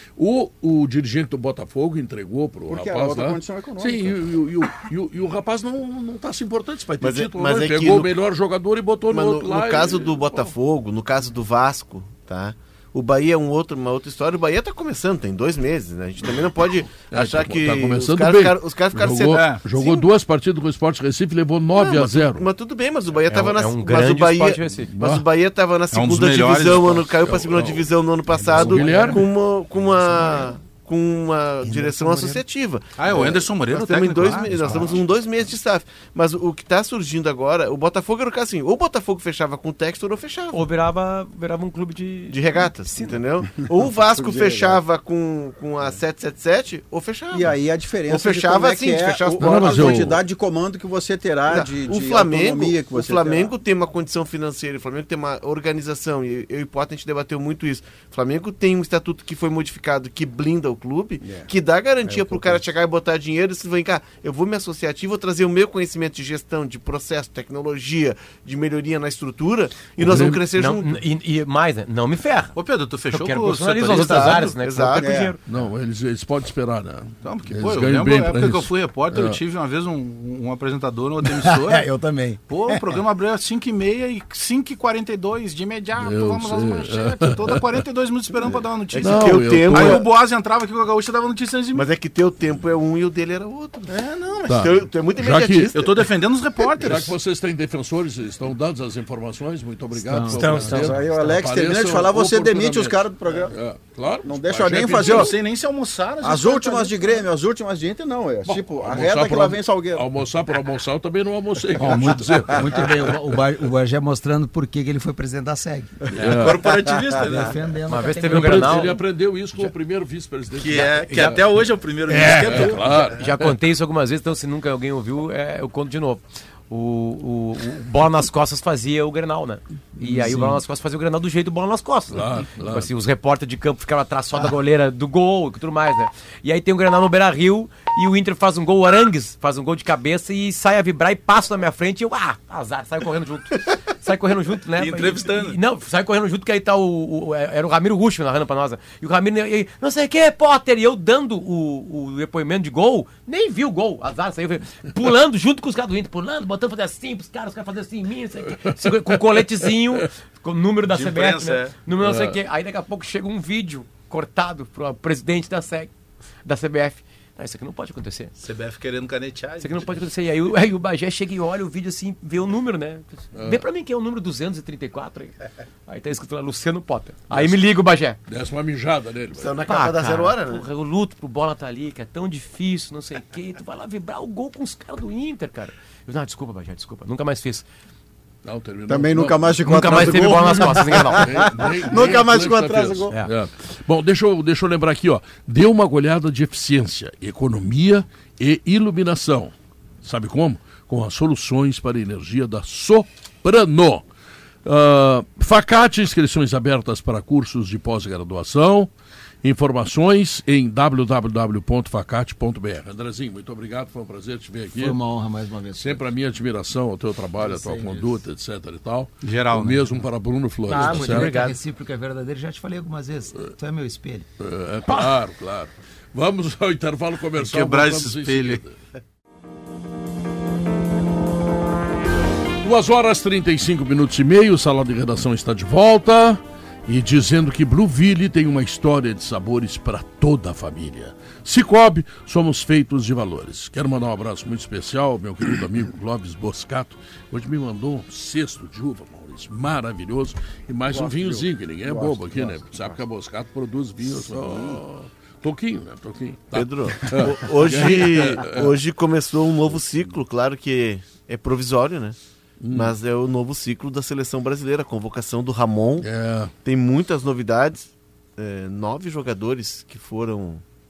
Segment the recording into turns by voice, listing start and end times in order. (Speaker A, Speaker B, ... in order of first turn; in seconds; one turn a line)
Speaker A: 0.2-10.5
Speaker B: 2.7-4.2
Speaker C: 7.0-8.1
Speaker C: 9.1-20.1
Speaker A: 16.9-22.5
Speaker D: 19.3-19.6
Speaker C: 21.7-40.6
Speaker E: 23.3-24.9
Speaker A: 25.0-25.2
Speaker D: 25.9-27.1
Speaker A: 27.2-29.3
Speaker F: 28.4-29.1
Speaker F: 31.6-32.4
Speaker D: 33.0-34.9
Speaker E: 40.5-43.2
Speaker C: 42.3-47.5
Speaker B: 43.5-44.8
Speaker B: 47.3-53.5
Speaker C: 48.1-50.2
Speaker A: 49.4-50.2
Speaker C: 51.5-71.0
Speaker B: 61.2-61.5
Speaker B: 62.0-62.6
Speaker A: 70.0-70.4
Speaker E: 70.5-72.6
Speaker D: 72.5-74.5
Speaker E: 73.1-75.4
Speaker C: 73.8-75.2
Speaker B: 75.0-75.3
Speaker A: 75.5-79.4
Speaker D: 77.2-81.9
Speaker F: 81.2-83.0
Speaker D: 82.5-91.9
Speaker A: 86.0-87.8
Speaker C: 88.9-90.1
Speaker A: 89.0-90.0
Speaker C: 91.7-93.9
Speaker D: 93.9-94.6
Speaker A: 94.5-95.7
Speaker C: 94.5-96.0
Speaker D: 95.7-97.2
Speaker A: 96.8-105.3
Speaker F: 100.0-101.0
Speaker D: 100.3-100.9
Speaker B: 100.7-103.5
Speaker B: 104.2-105.4
Speaker D: 104.8-107.3
Speaker B: 106.2-110.0
Speaker A: 108.5-113.1
Speaker F: 111.8-115.9
Speaker A: 116.1-116.7
Speaker D: 116.2-117.8
Speaker F: 117.2-119.0
Speaker E: 117.9-119.0
Speaker A: 118.2-123.5
Speaker D: 120.5-123.2
Speaker E: 123.2-165.9
Speaker F: 130.1-130.4
Speaker A: 130.1-130.5
Speaker A: 132.1-132.9
Speaker D: 144.7-145.6
Speaker A: 158.7-160.0
Speaker D: 160.9-161.7
Speaker A: 162.0-162.4
Speaker E: 166.4-168.3
Speaker D: 168.4-169.8
Speaker E: 169.6-175.3
Speaker A: 173.3-173.6
Speaker E: 175.9-178.2
Speaker A: 177.3-177.6
Speaker A: 178.3-179.5
Speaker C: 179.3-180.6
Speaker E: 179.6-187.7
Speaker A: 188.4-204.0
Speaker B: 188.9-193.1
Speaker E: 189.7-191.4
Speaker A: 204.6-208.9
Speaker A: 209.4-215.0
Speaker F: 214.7-216.0
Speaker A: 215.8-221.4
Speaker F: 217.4-218.2
Speaker D: 219.2-219.8
Speaker F: 220.7-224.2
Speaker D: 220.7-221.6
Speaker A: 224.4-228.8
Speaker D: 227.4-228.6
Speaker A: 232.6-258.7
Speaker B: 250.9-253.0
Speaker B: 254.0-254.8
Speaker C: 256.5-262.1
Speaker A: 262.6-262.9
Speaker C: 262.7-266.1
Speaker A: 266.0-266.5
Speaker C: 266.6-270.6